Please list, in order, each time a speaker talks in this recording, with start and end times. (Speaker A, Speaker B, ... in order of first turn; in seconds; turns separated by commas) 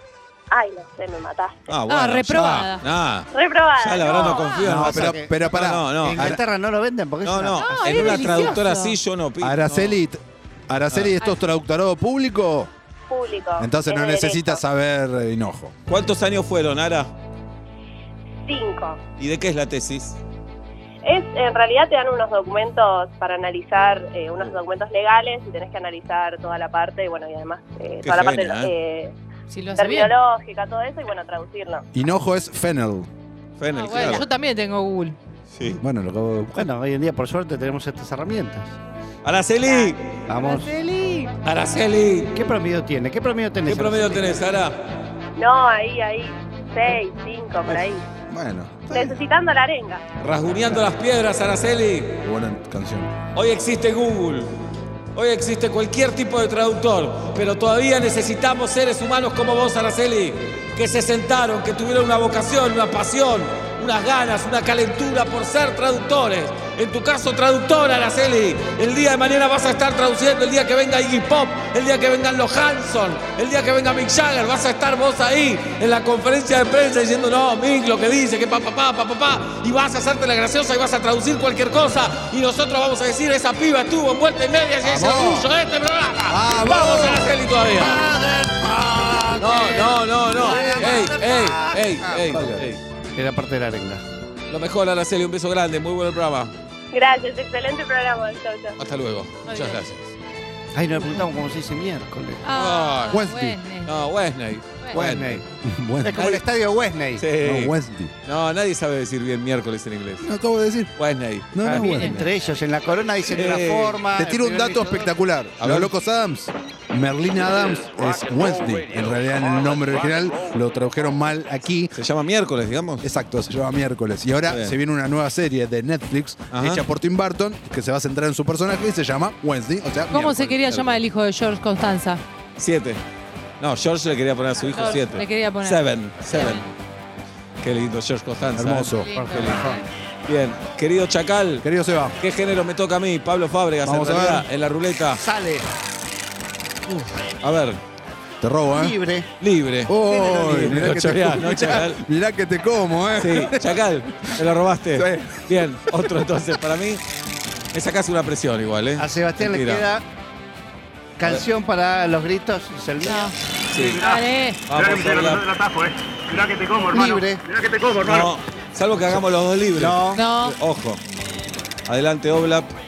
Speaker A: 0.5-1.7, Speaker B: 1.7-6.4, Speaker C: 1.9-2.8, Speaker A: 3.3-4.6, Speaker D: 4.1-8.2, Speaker E: 4.6-6.4, Speaker B: 7.2-10.0, Speaker C: 7.6-8.9, Speaker E: 9.4-12.7, Speaker A: 13.1-14.6, Speaker E: 13.6-15.7, Speaker B: 15.9-17.1, Speaker A: 18.4-19.0, Speaker B: 19.2-20.2, Speaker A: 21.0-29.1, Speaker B: 28.0-28.7, Speaker C: 29.5-30.1, Speaker A: 29.8-31.8, Speaker E: 31.9-33.1, Speaker B: 33.6-34.2, Speaker C: 33.7-35.2, Speaker B: 35.5-35.8, Speaker E: 35.8-36.7, Speaker D: 36.5-38.7, Speaker B: 39.2-40.2, Speaker D: 40.3-40.7, Speaker C: 40.4-41.3, Speaker B: 41.4-42.3, Speaker D: 42.3-44.4, Speaker B: 43.6-44.8, Speaker A: 45.4-48.0, Speaker E: 48.3-49.2, Speaker A: 48.9-50.0, Speaker B: 50.2-52.2, Speaker E: 52.2-53.1, Speaker B: 53.3-54.5, Speaker B: 55.1-88.0, Speaker E: 84.8-85.5, Speaker E: 86.3-87.3, Speaker D: 87.8-92.4, Speaker B: 89.4-92.8, Speaker E: 90.4-91.0, Speaker E: 92.2-92.7, Speaker D: 93.2-94.0, Speaker B: 94.5-96.5, Speaker A: 96.9-98.7, Speaker B: 98.8-100.1, Speaker C: 99.4-99.8, Speaker D: 100.7-102.4, Speaker C: 102.4-103.9, Speaker B: 102.5-103.2, Speaker E: 103.1-103.6, Speaker B: 103.8-105.4, Speaker D: 104.9-105.4, Speaker E: 105.6-106.4, Speaker D: 106.0-107.2, Speaker B: 107.2-107.7, Speaker E: 107.4-108.1, Speaker B: 108.2-110.3, Speaker E: 110.2-110.9, Speaker B: 111.0-111.8, Speaker E: 111.5-112.3, Speaker D: 111.6-115.1, Speaker C: 111.8-112.2, Speaker B: 113.3-114.0, Speaker E: 114.2-121.9, Speaker B: 115.6-115.9, Speaker B: 121.9-123.0, Speaker E: 123.0-131.0, Speaker B: 124.5-124.7, Speaker B: 126.5-126.8, Speaker C: 130.1-132.2, Speaker B: 132.6-133.0, Speaker B: 133.6-136.7, Speaker C: 134.7-136.6, Speaker B: 137.6-139.6, Speaker E: 138.5-139.8, Speaker C: 139.0-139.8, Speaker D: 139.2-139.7, Speaker B: 140.2-141.7, Speaker E: 141.6-142.2, Speaker B: 142.2-145.2, Speaker E: 143.8-144.4, Speaker D: 145.2-145.7, Speaker B: 146.8-147.8, Speaker E: 148.4-148.9, Speaker D: 148.7-149.3, Speaker B: 149.4-152.0, Speaker E: 149.9-153.6, Speaker D: 150.0-151.0, Speaker B: 153.2-157.0, Speaker E: 154.9-155.4, Speaker B: 157.7-159.8, Speaker D: 159.0-160.0, Speaker D: 161.2-163.3, Speaker C: 163.0-163.3, Speaker B: 163.7-164.0, Speaker F: 163.7-168.3, Speaker C: 163.9-164.6, Speaker B: 164.7-165.4, Speaker D: 166.9-167.4, Speaker B: 168.0-171.0, Speaker D: 169.8-170.2, Speaker C: 170.2-170.6, Speaker B: 171.8-172.7